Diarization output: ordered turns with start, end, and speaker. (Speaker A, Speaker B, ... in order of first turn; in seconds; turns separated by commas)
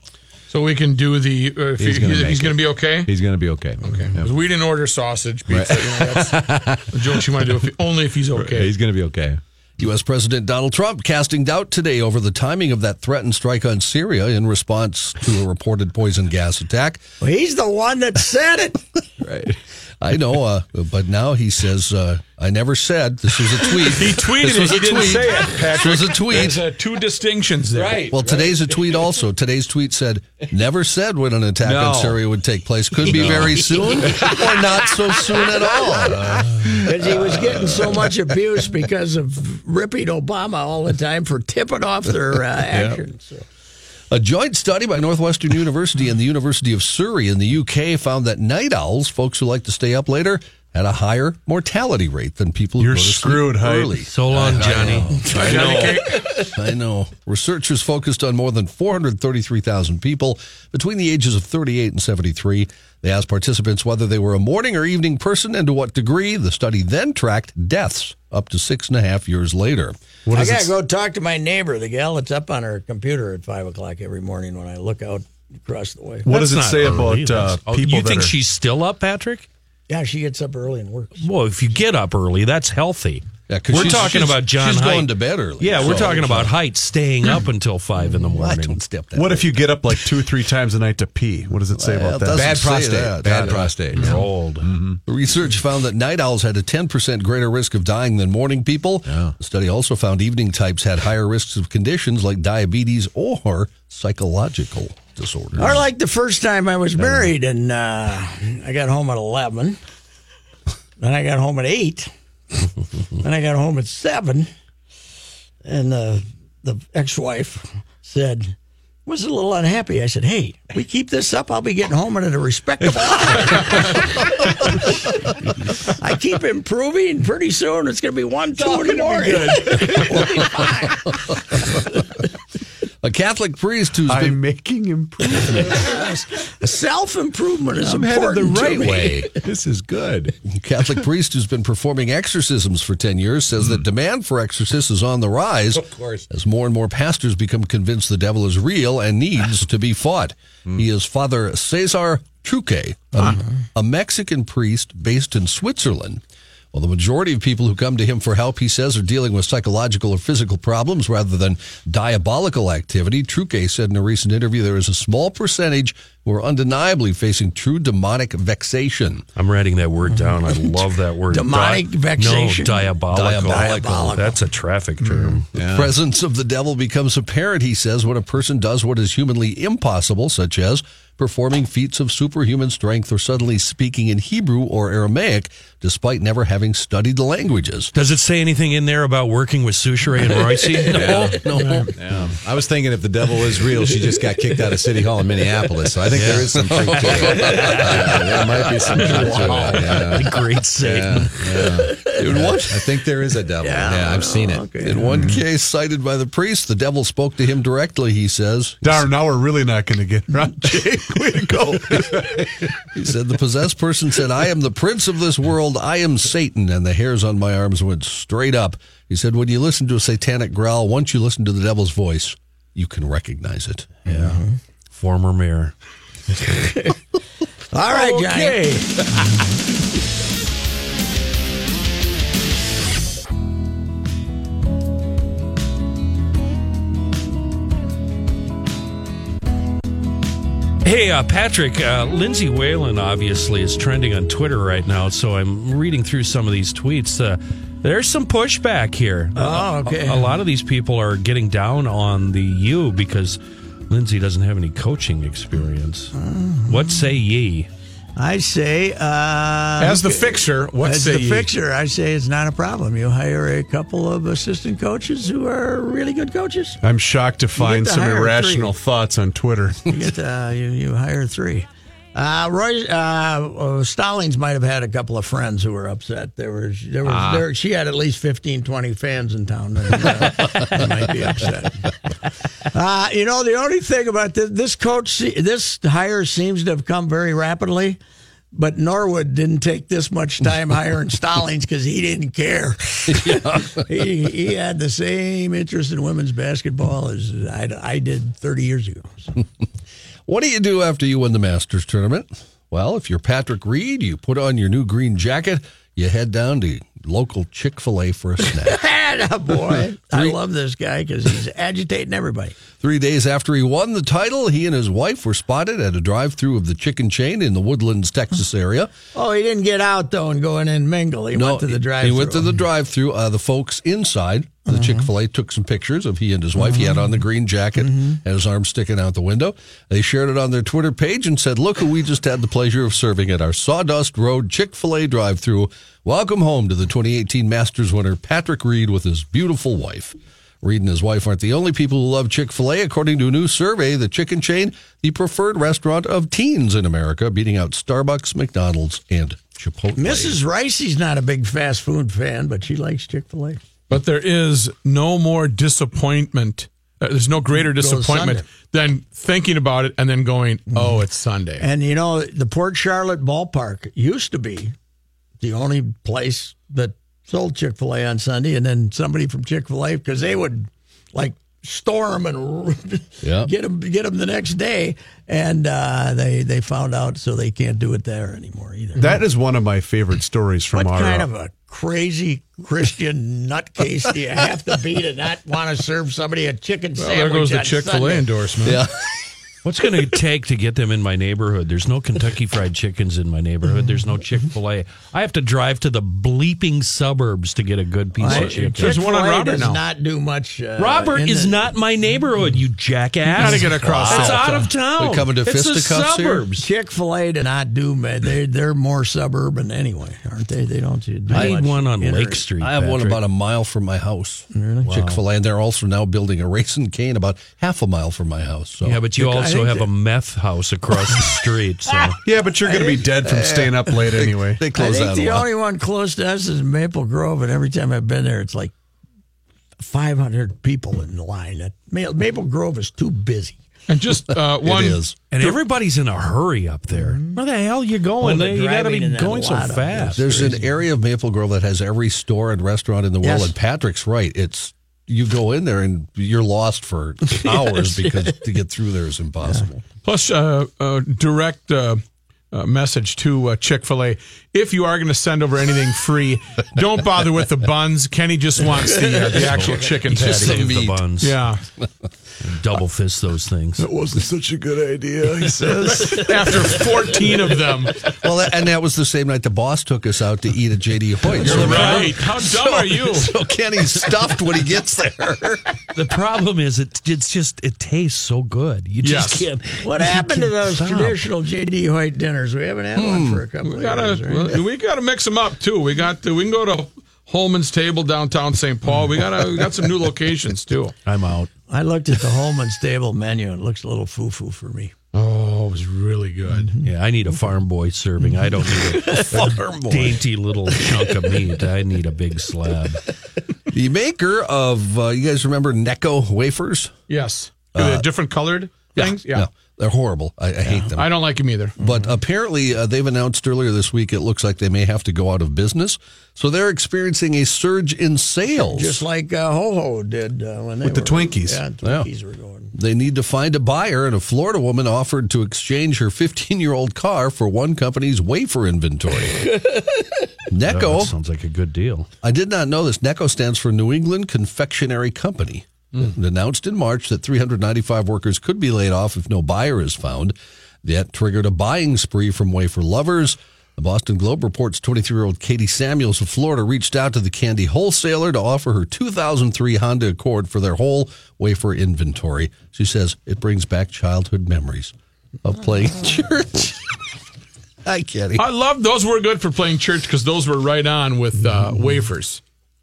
Speaker A: 0.5-3.1, Speaker B: 1.8-4.3, Speaker A: 3.8-8.7, Speaker B: 5.5-7.5, Speaker B: 8.3-9.4, Speaker C: 9.8-17.0, Speaker D: 17.2-18.9, Speaker B: 19.2-19.6, Speaker C: 20.0-26.6, Speaker A: 23.9-28.1, Speaker B: 27.7-29.2, Speaker C: 28.1-36.6, Speaker B: 31.6-32.2, Speaker B: 33.0-38.1, Speaker D: 36.8-43.5, Speaker C: 44.1-70.0, Speaker E: 52.8-54.8, Speaker F: 54.1-55.5, Speaker A: 55.2-56.2, Speaker D: 55.4-55.9, Speaker E: 70.3-70.7, Speaker D: 70.3-76.3, Speaker E: 76.2-78.3, Speaker F: 76.3-79.5, Speaker D: 79.9-81.3, Speaker F: 81.2-88.8, Speaker C: 83.5-86.5, Speaker C: 88.3-89.5, Speaker E: 89.1-92.7, Speaker C: 91.8-94.2, Speaker B: 92.3-95.0, Speaker E: 93.3-94.2, Speaker F: 93.9-94.7, Speaker C: 95.1-105.8, Speaker B: 99.1-99.3, Speaker D: 105.6-109.8, Speaker D: 111.0-112.1, Speaker D: 113.2-114.5, Speaker D: 115.6-118.5, Speaker D: 119.1-124.9, Speaker D: 125.9-131.2, Speaker E: 128.7-130.2, Speaker C: 133.0-134.4, Speaker E: 134.1-136.0, Speaker D: 135.6-139.3, Speaker B: 137.9-140.3, Speaker E: 137.9-139.1, Speaker C: 140.5-156.2, Speaker B: 145.8-146.2, Speaker C: 156.7-169.3, Speaker F: 169.4-175.4, Speaker D: 170.1-170.5, Speaker D: 171.3-174.4, Speaker C: 173.1-174.2, Speaker B: 175.5-175.9, Speaker C: 175.6-187.9, Speaker F: 187.9-191.4, Speaker B: 190.8-204.7, Speaker C: 191.1-191.9, Speaker A: 191.5-191.9, Speaker F: 196.1-198.1, Speaker C: 196.6-198.8, Speaker D: 198.9-199.4, Speaker F: 199.1-201.4, Speaker D: 201.9-202.2, Speaker C: 202.2-202.9, Speaker D: 203.6-205.1, Speaker C: 204.8-208.9, Speaker E: 205.1-205.4, Speaker E: 208.8-212.6, Speaker C: 212.9-224.4, Speaker D: 224.1-224.6, Speaker F: 224.9-225.7, Speaker D: 226.3-226.9, Speaker D: 227.7-228.9, Speaker A: 227.9-228.8, Speaker F: 240.8-256.1, Speaker D: 249.4-250.3, Speaker D: 256.1-257.1, Speaker F: 256.7-257.7, Speaker D: 258.2-266.8, Speaker A: 259.8-261.5, Speaker E: 266.8-269.9, Speaker D: 267.6-268.7, Speaker D: 269.9-281.9, Speaker B: 277.1-277.4, Speaker D: 282.7-288.0, Speaker D: 288.5-299.3, Speaker C: 293.1-293.8, Speaker C: 300.3-308.8, Speaker D: 308.6-312.6, Speaker C: 310.1-310.4, Speaker C: 312.8-318.9, Speaker D: 319.1-322.5, Speaker C: 321.3-350.4, Speaker D: 324.7-325.0, Speaker D: 350.0-353.6, Speaker A: 353.9-361.7, Speaker D: 357.5-358.4, Speaker D: 360.7-361.0, Speaker D: 361.6-364.7, Speaker D: 365.4-379.2, Speaker C: 373.2-373.5, Speaker E: 379.0-381.3, Speaker D: 380.7-388.3, Speaker A: 387.0-388.8, Speaker C: 388.6-389.1, Speaker F: 389.6-399.0, Speaker D: 398.2-401.7, Speaker A: 398.3-399.8, Speaker F: 400.8-406.6, Speaker A: 403.3-404.8, Speaker D: 403.4-404.4, Speaker C: 403.9-404.3, Speaker C: 404.8-406.6, Speaker D: 406.6-412.4, Speaker F: 411.3-413.2, Speaker C: 411.3-411.6, Speaker C: 412.5-419.0, Speaker D: 414.5-415.0, Speaker F: 414.9-415.2, Speaker F: 418.8-422.1, Speaker D: 419.2-419.9, Speaker E: 422.2-424.6, Speaker D: 422.7-423.1, Speaker C: 424.2-425.5, Speaker D: 424.8-428.7, Speaker D: 429.8-433.6, Speaker A: 433.9-435.6, Speaker C: 434.6-435.3, Speaker F: 435.3-440.2, Speaker D: 436.9-437.4, Speaker D: 438.2-440.7, Speaker C: 440.1-449.9, Speaker D: 443.2-443.5, Speaker A: 450.0-460.6, Speaker D: 459.0-459.9, Speaker F: 459.4-461.4, Speaker C: 460.1-461.1, Speaker A: 461.2-461.6, Speaker F: 462.4-463.9, Speaker E: 463.8-466.2, Speaker A: 465.4-468.0, Speaker F: 465.9-466.7, Speaker C: 468.2-475.6, Speaker F: 471.4-472.2, Speaker A: 471.4-473.3, Speaker F: 475.9-481.2, Speaker A: 479.0-479.5, Speaker D: 479.8-484.6, Speaker C: 482.9-483.4, Speaker A: 483.6-490.9, Speaker F: 491.0-491.5, Speaker D: 491.7-494.9, Speaker A: 495.1-496.8, Speaker D: 496.5-496.8, Speaker F: 496.8-503.0, Speaker D: 498.2-499.4, Speaker C: 499.1-500.2, Speaker C: 503.7-506.9, Speaker A: 507.1-509.5, Speaker C: 507.7-508.1, Speaker C: 508.9-511.1, Speaker A: 510.8-511.8, Speaker C: 511.8-519.0, Speaker D: 511.8-512.1, Speaker D: 518.5-522.7, Speaker E: 520.8-521.6, Speaker C: 521.8-522.1, Speaker C: 522.7-529.5, Speaker D: 529.5-529.9, Speaker C: 530.5-531.1, Speaker F: 530.6-532.1, Speaker C: 532.2-554.9, Speaker C: 555.4-556.8, Speaker C: 557.9-558.4, Speaker A: 558.4-562.4